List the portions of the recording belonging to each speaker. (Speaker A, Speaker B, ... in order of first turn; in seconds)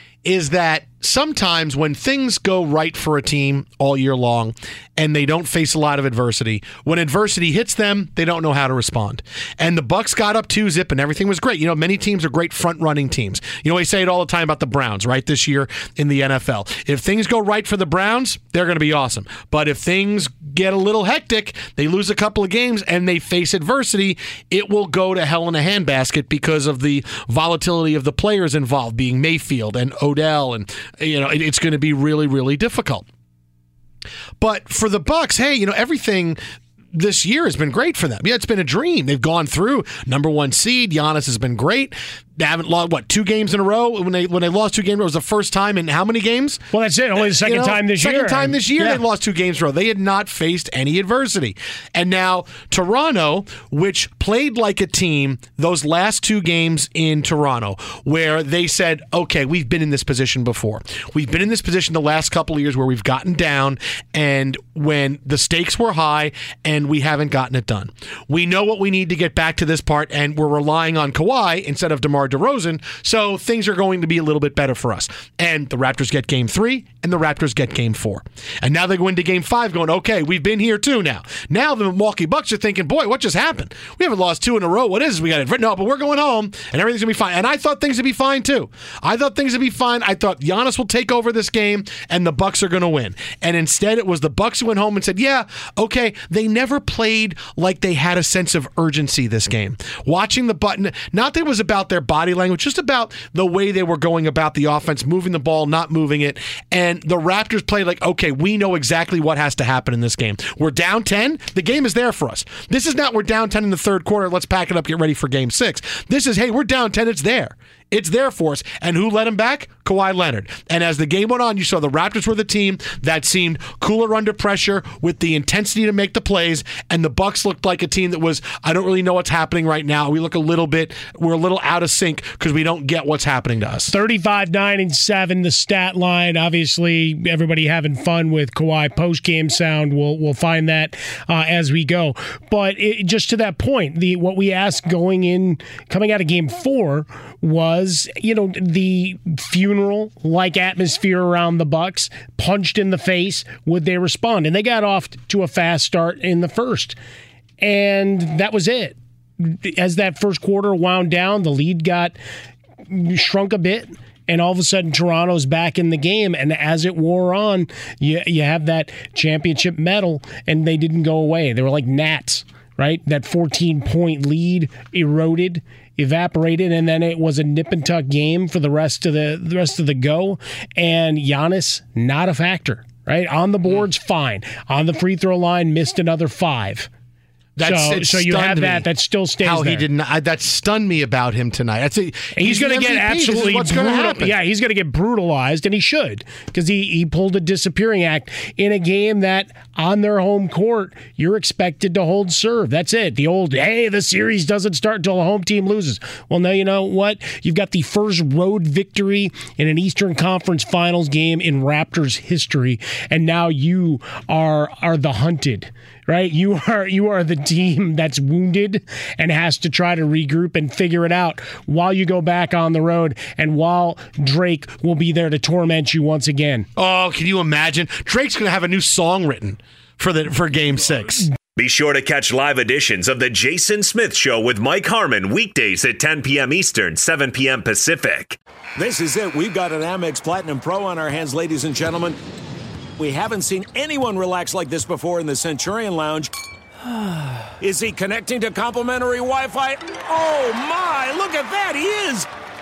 Speaker A: 0.2-33.1, 34.4-36.4, 36.9-46.6, 47.3-133.9, 187.6-188.9, 189.4-194.4, 226.8-231.3
Speaker B: 46.7-49.0, 133.9-157.0, 157.6-162.2, 162.9-186.9, 187.6-189.9, 192.4-226.7
Speaker C: 231.6-238.4
Speaker D: 238.8-242.2, 243.0-246.3, 247.6-252.3